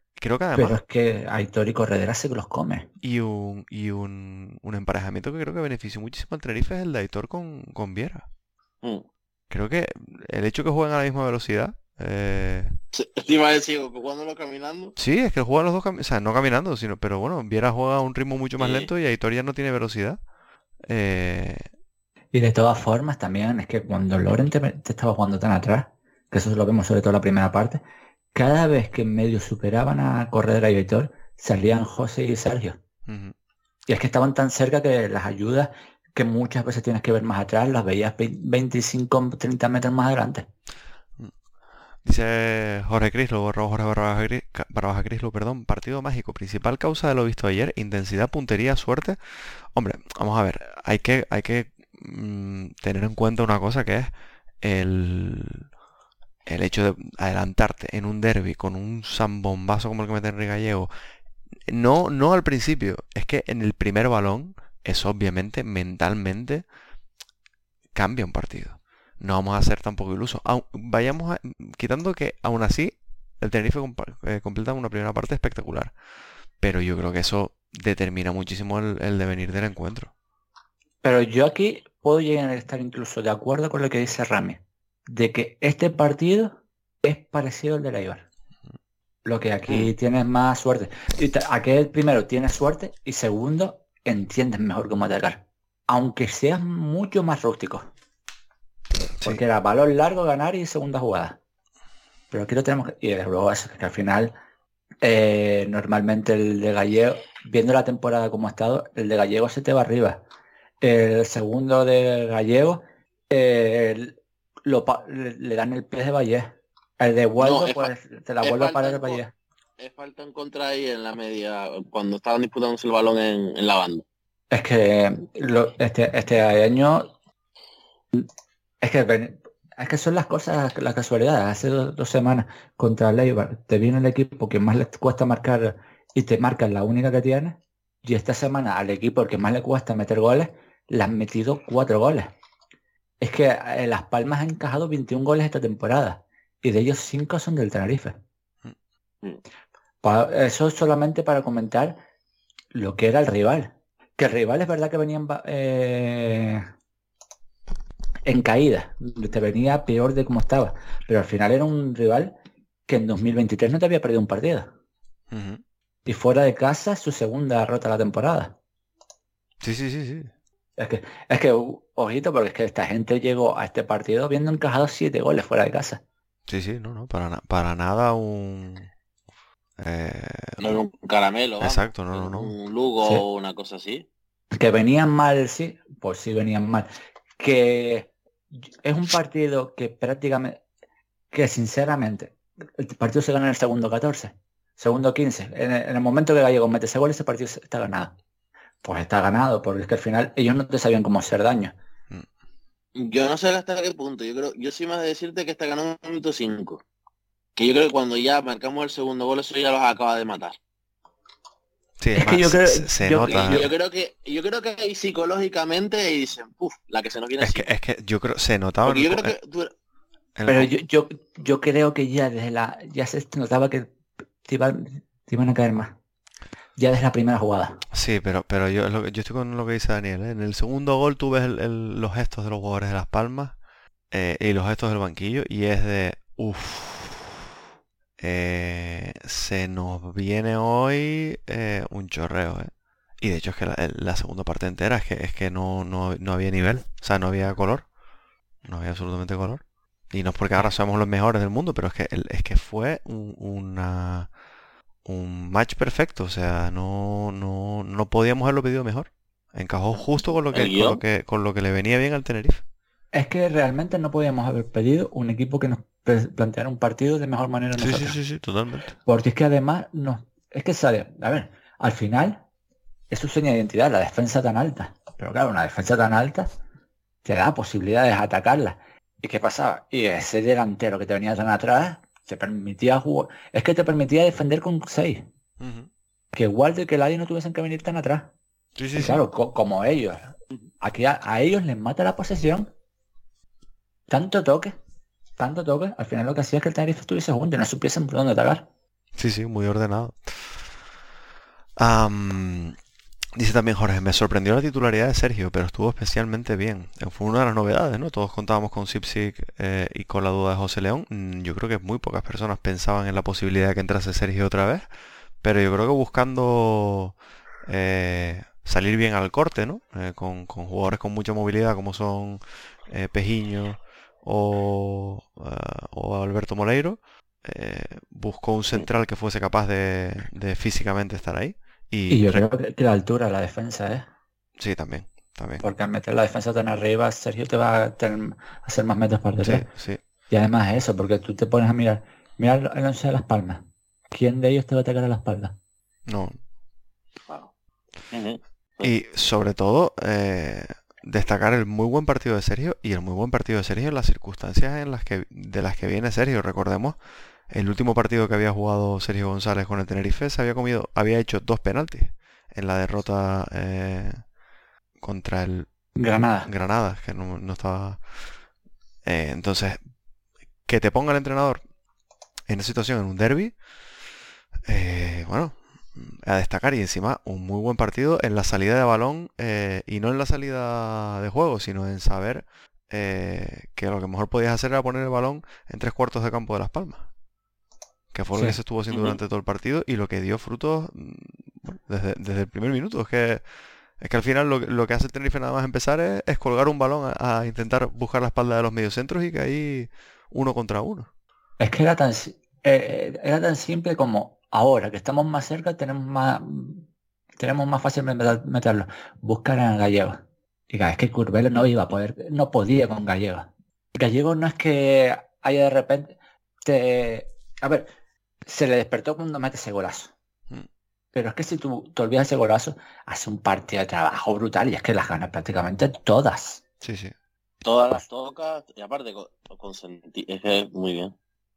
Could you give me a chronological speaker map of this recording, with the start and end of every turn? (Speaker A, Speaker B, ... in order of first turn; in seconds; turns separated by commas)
Speaker A: 0.2-0.8, Speaker B: 0.6-2.9, Speaker A: 3.0-8.3, Speaker A: 9.5-12.8, Speaker C: 12.9-14.9, Speaker A: 15.0-20.2, Speaker C: 18.6-18.9, Speaker A: 20.9-21.7, Speaker B: 22.3-27.8, Speaker B: 28.3-32.8, Speaker A: 33.1-33.3, Speaker B: 33.9-40.5, Speaker A: 42.0-55.7, Speaker A: 56.5-60.9, Speaker A: 61.7-66.7, Speaker A: 67.9-75.9, Speaker A: 76.6-80.1, Speaker B: 81.0-88.2, Speaker B: 89.2-97.9, Speaker A: 99.2-99.4, Speaker B: 99.2-101.4, Speaker B: 102.3-104.3, Speaker B: 105.0-110.2, Speaker B: 110.8-119.3, Speaker C: 117.4-117.9, Speaker C: 118.4-119.2, Speaker C: 119.8-124.0, Speaker B: 124.5-127.1, Speaker B: 128.8-142.3, Speaker B: 143.2-148.2, Speaker B: 150.0-152.0, Speaker B: 152.7-156.7, Speaker B: 158.3-162.3, Speaker B: 162.9-164.7, Speaker A: 165.3-165.6, Speaker B: 166.1-168.6, Speaker A: 169.6-170.3, Speaker B: 170.8-176.0, Speaker A: 176.5-178.9, Speaker A: 179.8-180.8, Speaker C: 180.6-184.1, Speaker A: 181.6-182.5, Speaker B: 184.6-186.9, Speaker B: 187.4-188.1, Speaker B: 188.8-190.6, Speaker B: 191.3-198.1, Speaker B: 198.8-201.7, Speaker C: 203.0-206.8, Speaker C: 207.6-210.6, Speaker A: 212.0-213.7, Speaker B: 212.2-213.7, Speaker C: 213.3-217.7, Speaker A: 217.4-219.3, Speaker C: 218.8-219.7, Speaker A: 220.3-220.7, Speaker B: 220.5-223.9, Speaker B: 224.4-225.9, Speaker B: 226.8-227.8, Speaker A: 227.9-233.6, Speaker A: 234.1-237.4, Speaker A: 238.2-247.9, Speaker A: 248.6-254.3, Speaker A: 255.1-262.6, Speaker C: 260.0-261.0, Speaker B: 263.1-268.2, Speaker A: 267.8-268.9, Speaker B: 269.1-272.4, Speaker B: 273.1-276.5, Speaker B: 277.2-285.2, Speaker A: 285.6-285.9, Speaker B: 286.3-288.3, Speaker A: 288.8-289.2, Speaker B: 289.0-290.3, Speaker B: 290.8-292.7, Speaker B: 294.1-294.8, Speaker B: 295.4-298.7, Speaker A: 299.1-300.7, Speaker A: 301.8-302.8, Speaker A: 303.4-314.9, Speaker A: 315.4-332.5, Speaker B: 332.1-334.1, Speaker A: 334.6-335.6, Speaker B: 335.6-339.7, Speaker A: 339.4-340.0, Speaker B: 340.3-345.5, Speaker A: 346.1-346.4, Speaker C: 348.1-348.9, Speaker A: 348.8-357.0, Speaker A: 357.5-364.3, Speaker A: 365.0-368.1, Speaker B: 365.9-366.5, Speaker A: 369.0-369.8, Speaker A: 370.7-371.6, Speaker A: 372.5-373.6, Speaker A: 374.7-387.1, Speaker A: 388.1-393.5, Speaker C: 388.9-389.2, Speaker A: 394.0-401.1, Speaker B: 401.6-406.8, Speaker B: 407.4-410.2, Speaker B: 410.7-417.9, Speaker B: 418.5-420.1, Speaker B: 421.1-426.6, Speaker A: 426.8-427.1, Speaker C: 427.6-431.1